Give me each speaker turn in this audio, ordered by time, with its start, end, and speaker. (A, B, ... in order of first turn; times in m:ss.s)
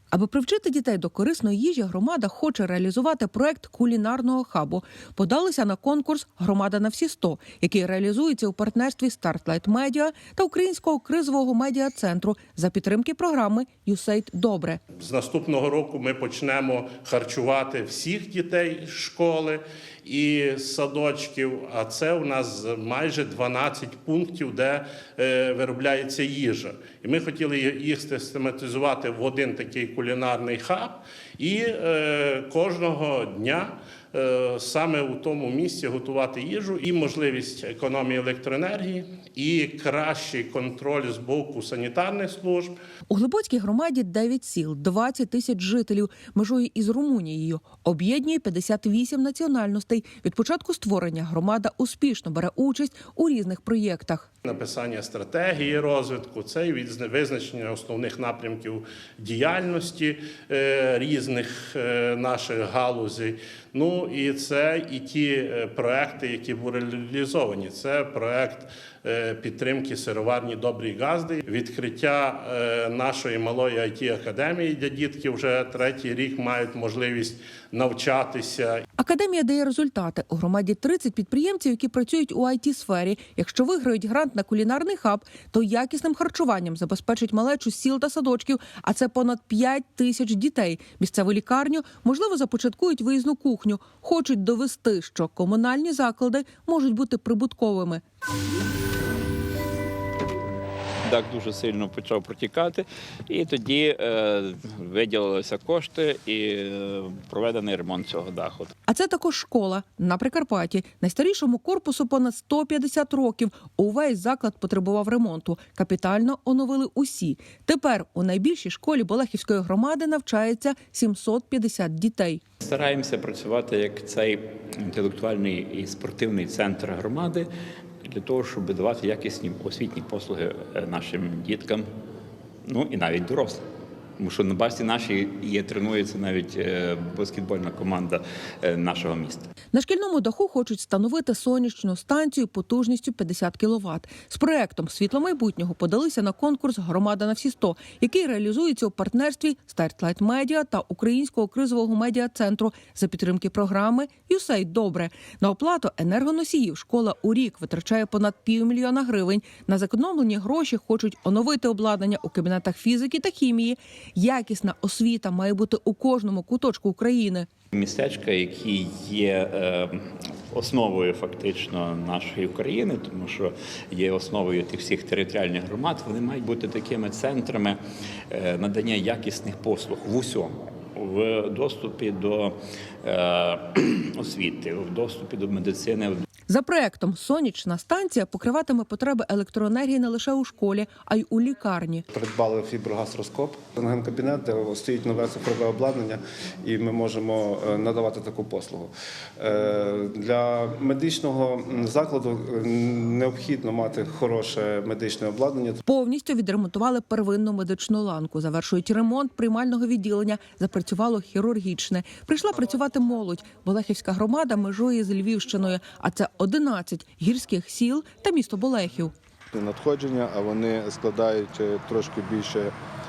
0:00.1-0:14.8 A
0:15.0-0:42.7 B
0:43.1-0:54.3 A
0:54.4-1:18.8 B
1:19.0-1:38.0 A
1:41.0-1:48.7 C
1:48.9-2:02.4 A
2:02.6-2:07.5 C
2:08.0-2:11.9 C
2:12.6-2:13.6 C
2:14.2-2:19.5 C
2:19.7-2:47.5 A
2:47.7-2:57.8 C
2:58.3-3:06.2 C
3:06.5-3:12.0 A
3:12.1-3:25.8 D
3:25.8-3:39.1 A
3:39.5-3:42.7 E